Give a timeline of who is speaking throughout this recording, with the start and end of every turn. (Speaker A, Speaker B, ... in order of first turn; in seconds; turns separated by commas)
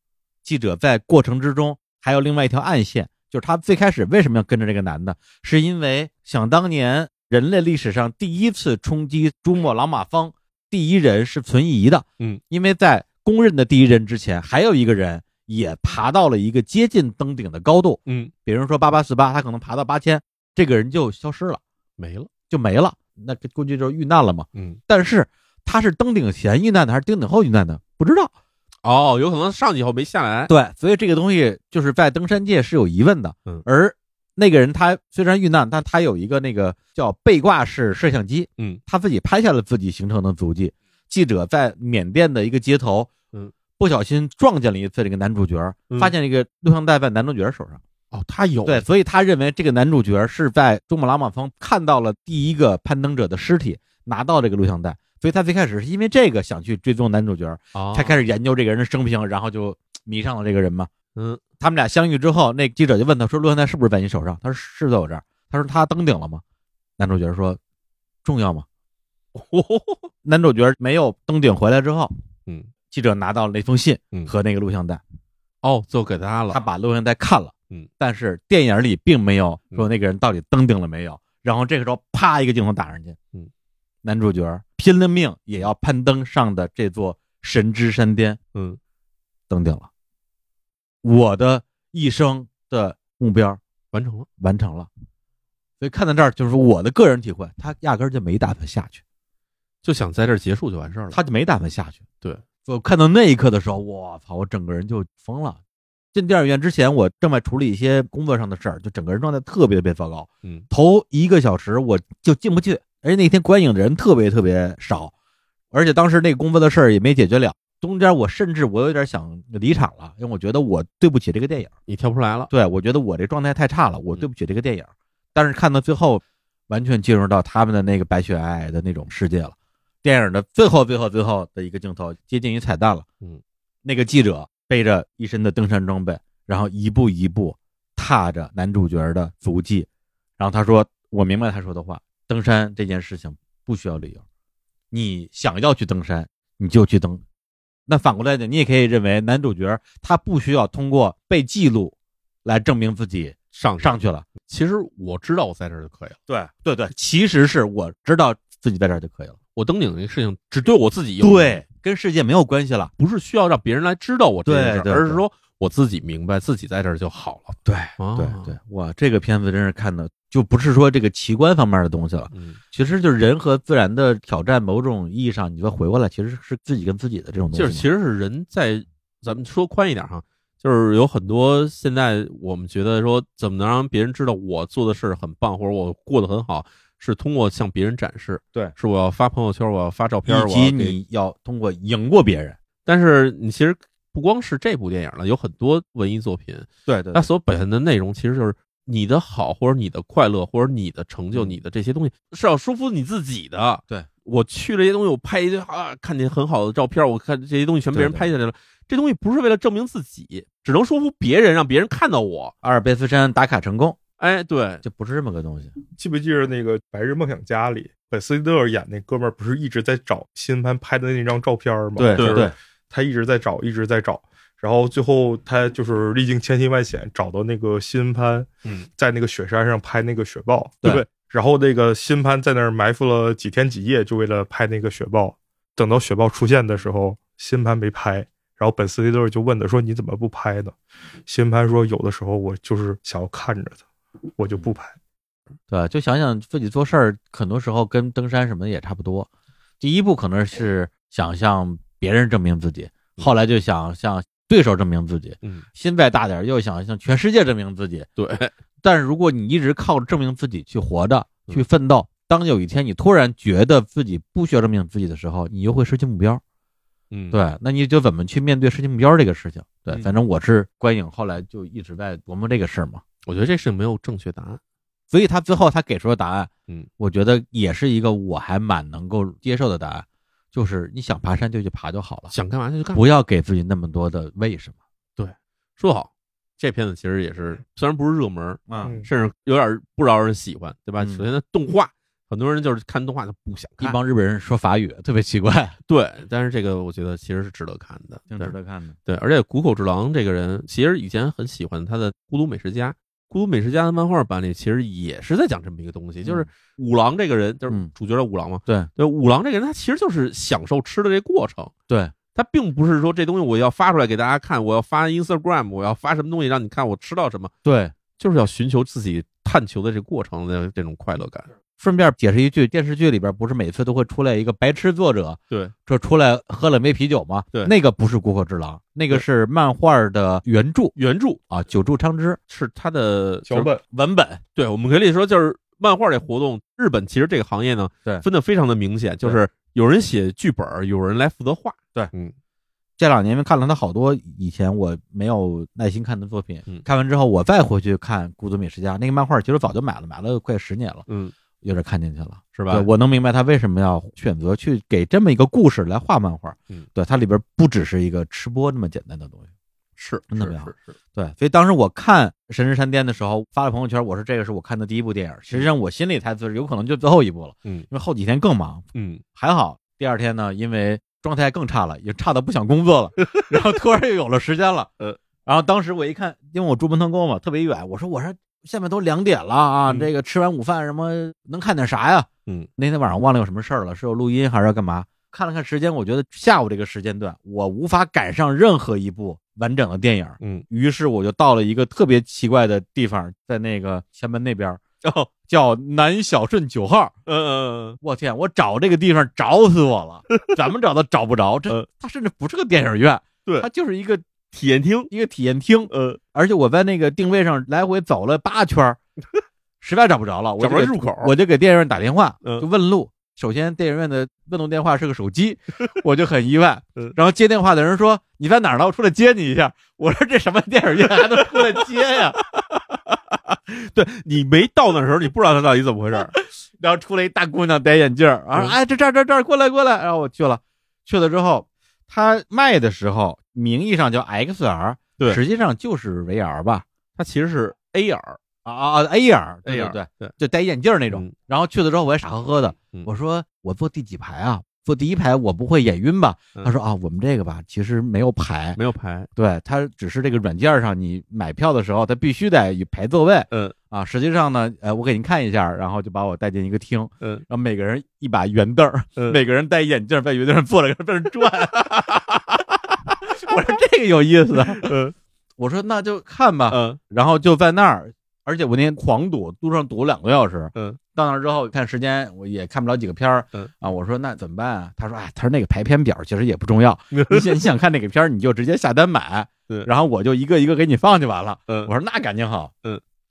Speaker A: 0.4-21.6, Speaker B: 18.1-18.3, Speaker B: 22.0-22.3, Speaker A: 22.5-28.3, Speaker B: 28.8-30.5, Speaker A: 30.5-43.1, Speaker A: 43.8-47.8, Speaker B: 48.1-48.8, Speaker A: 48.6-60.9, Speaker B: 57.7-58.1, Speaker A: 61.6-66.4, Speaker A: 67.0-67.6, Speaker A: 68.2-68.6, Speaker B: 69.3-70.1, Speaker A: 70.2-72.1, Speaker A: 72.9-75.0, Speaker B: 75.6-76.6, Speaker A: 76.5-83.2, Speaker A: 84.0-88.4, Speaker A: 89.5-89.9, Speaker A: 91.0-93.6, Speaker B: 93.9-94.3, Speaker A: 94.4-94.9, Speaker A: 95.8-99.0, Speaker B: 99.8-101.2, Speaker A: 101.1-102.0, Speaker A: 102.7-105.6, Speaker A: 106.1-115.1, Speaker A: 115.7-121.7, Speaker B: 121.9-122.5, Speaker A: 122.5-133.1, Speaker A: 133.8-139.9, Speaker A: 140.4-144.2, Speaker A: 144.9-147.2, Speaker A: 147.9-154.2, Speaker B: 153.5-156.2, Speaker A: 156.3-159.3, Speaker B: 159.5-161.6, Speaker A: 161.2-162.9, Speaker B: 163.0-168.5, Speaker A: 164.4-165.2, Speaker A: 167.6-177.8, Speaker B: 172.3-172.6, Speaker B: 177.5-190.9, Speaker A: 190.3-192.6, Speaker B: 192.8-212.5, Speaker A: 196.9-197.2, Speaker A: 207.9-208.3, Speaker A: 212.6-214.0, Speaker B: 214.2-214.8, Speaker A: 214.8-215.7, Speaker C: 216.0-243.8, Speaker A: 222.0-222.5, Speaker B: 222.2-222.5, Speaker C: 244.4-244.9, Speaker A: 245.7-249.3, Speaker A: 249.8-258.1, Speaker B: 258.2-258.5, Speaker A: 258.8-266.4, Speaker B: 267.1-267.4, Speaker A: 267.3-273.0, Speaker B: 273.2-274.6, Speaker A: 275.1-282.3, Speaker B: 282.3-283.0, Speaker A: 282.9-284.7, Speaker B: 285.2-294.0, Speaker A: 288.7-288.9, Speaker C: 288.8-289.1, Speaker A: 291.0-291.2, Speaker A: 293.8-295.8, Speaker B: 295.9-298.5, Speaker A: 298.3-298.9, Speaker B: 299.1-311.7, Speaker A: 311.9-312.1, Speaker B: 312.3-317.5, Speaker A: 317.6-317.9, Speaker B: 318.2-321.5, Speaker A: 321.8-330.9, Speaker B: 330.9-331.4, Speaker A: 331.5-332.4, Speaker B: 332.5-333.7, Speaker C: 333.5-333.8, Speaker A: 333.9-334.4, Speaker B: 334.6-342.3, Speaker A: 343.0-351.1, Speaker B: 351.1-351.3, Speaker A: 351.6-359.4, Speaker B: 352.5-352.9, Speaker B: 360.0-360.9, Speaker A: 360.3-368.8, Speaker B: 368.9-369.2, Speaker A: 369.4-374.9, Speaker B: 373.2-373.5, Speaker A: 375.4-394.8, Speaker B: 395.0-395.3, Speaker A: 395.4-397.1, Speaker B: 397.3-398.0, Speaker A: 398.0-404.2, Speaker B: 404.5-405.1, Speaker A: 405.1-409.0, Speaker B: 405.9-406.2, Speaker A: 409.8-422.4, Speaker B: 410.6-411.3, Speaker B: 421.1-421.7, Speaker B: 422.5-426.3, Speaker A: 426.1-436.8, Speaker B: 437.1-438.4, Speaker A: 438.6-448.8, Speaker B: 439.6-440.3, Speaker B: 448.8-449.3, Speaker A: 449.4-462.2, Speaker B: 461.9-462.3, Speaker A: 463.1-465.0, Speaker B: 464.7-465.1, Speaker A: 465.6-482.7, Speaker B: 466.7-467.0, Speaker B: 477.1-477.6